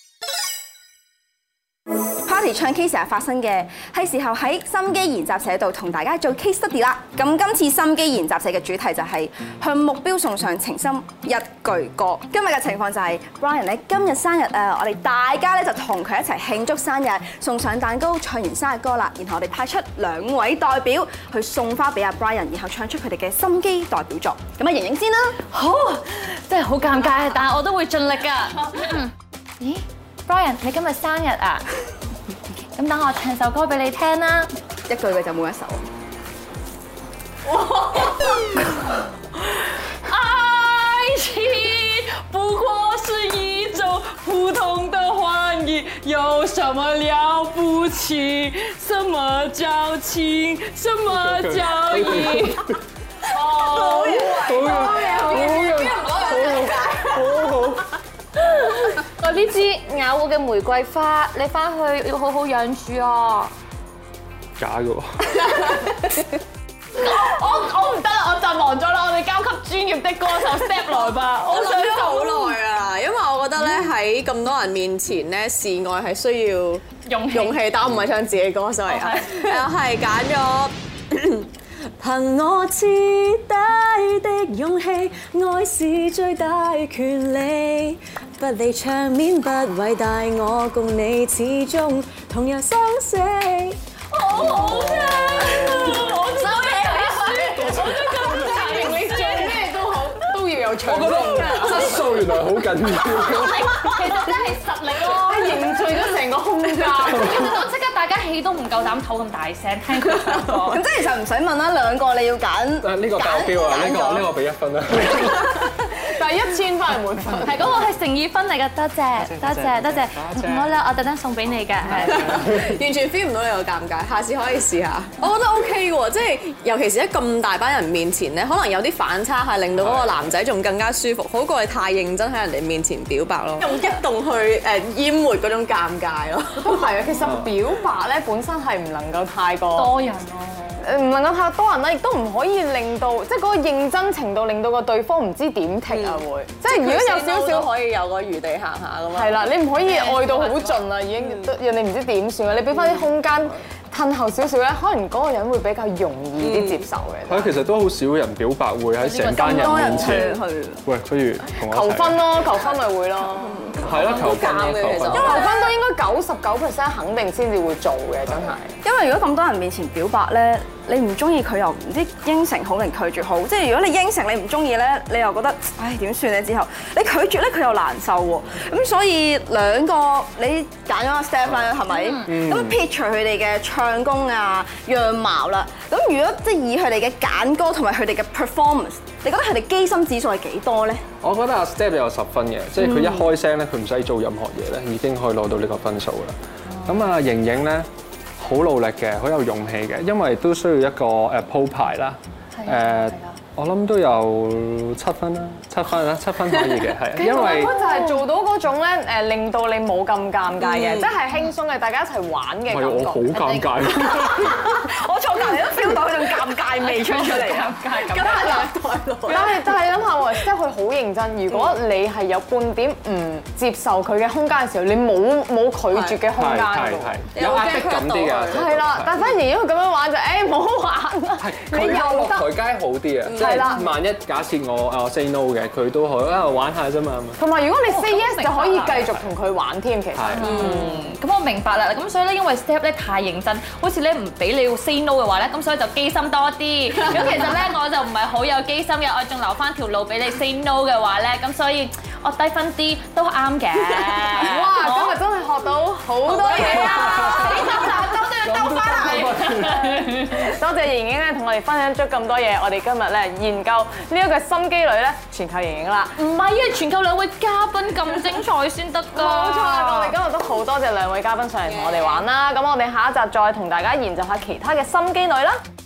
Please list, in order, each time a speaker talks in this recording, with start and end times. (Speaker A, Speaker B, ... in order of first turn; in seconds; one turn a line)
Speaker A: 2.2-25.4
Speaker B: 25.5-31.6
Speaker B: 32.5-34.5
Speaker A: 34.9-35.9
Speaker B: 37.7-38.4
Speaker B: 40.0-52.6
Speaker C: 51.1-52.7
Speaker B: 53.3-56.3
Speaker D: 53.5-57.1
Speaker A: 53.6-56.4
Speaker C: 54.4-57.8
Speaker B: 58.4-63.5
Speaker C: 64.6-65.5
Speaker B: 67.0-72.6
Speaker D: 71.5-93.8
Speaker B: 77.0-77.6
Speaker B: 78.9-79.6
Speaker B: 94.1-99.7
Speaker D: 94.3-97.4
Speaker C: 94.6-95.8
Speaker E: 97.0-102.0
Speaker C: 97.8-98.3
Speaker C: 100.8-104.0
Speaker B: 103.0-105.9
Speaker E: 105.1-107.4
Speaker B: 106.9-110.8
Speaker A: 110.7-114.3
Speaker C: 112.8-115.7
Speaker E: 115.9-117.7
Speaker B: 117.4-122.4
Speaker C: 119.2-120.7
Speaker C: 122.0-122.4
Speaker D: 122.1-136.9
Speaker C: 129.8-130.3
Speaker E: 136.6-139.9
Speaker C: 137.2-137.5
Speaker B: 139.7-140.8
Speaker E: 140.8-147.7
Speaker D: 145.9-150.8
Speaker E: 149.1-157.5
Speaker B: 149.8-150.2
Speaker D: 156.4-156.8
Speaker C: 157.3-162.3
Speaker B: 159.0-160.2
Speaker A: 159.2-160.8
Speaker E: 161.6-164.2
Speaker D: 163.7-165.6
Speaker C: 163.8-165.5
Speaker E: 165.1-168.7
Speaker A: 168.8-191.0
Speaker B: 181.9-182.3
Speaker C: 182.3-182.8
Speaker C: 191.2-197.9
Speaker A: 192.8-193.2
Speaker B: 196.7-197.1
Speaker C: 198.4-207.7
Speaker B: 202.5-203.3
Speaker E: 207.1-213.6
Speaker B: 207.2-208.2
Speaker D: 210.6-211.0
Speaker C: 212.7-214.6
Speaker B: 213.4-213.7
Speaker A: 214.4-219.3
Speaker B: 216.8-218.7
Speaker D: 218.1-219.5
Speaker E: 219.3-227.3
Speaker D: 225.9-226.2
Speaker C: 226.3-229.1
Speaker D: 227.3-228.7
Speaker E: 228.5-232.5
Speaker C: 231.4-237.4
Speaker D: 233.2-233.7
Speaker E: 233.4-233.8
Speaker E: 237.4-240.5
Speaker B: 237.8-239.0
Speaker C: 240.1-240.5
Speaker B: 240.3-255.2
Speaker D: 240.4-241.1
Speaker E: 254.4-257.8
Speaker B: 256.3-260.5
Speaker C: 256.5-259.9
Speaker E: 260.3-266.2
Speaker B: 266.2-270.1
Speaker E: 269.1-275.6
Speaker D: 271.6-272.2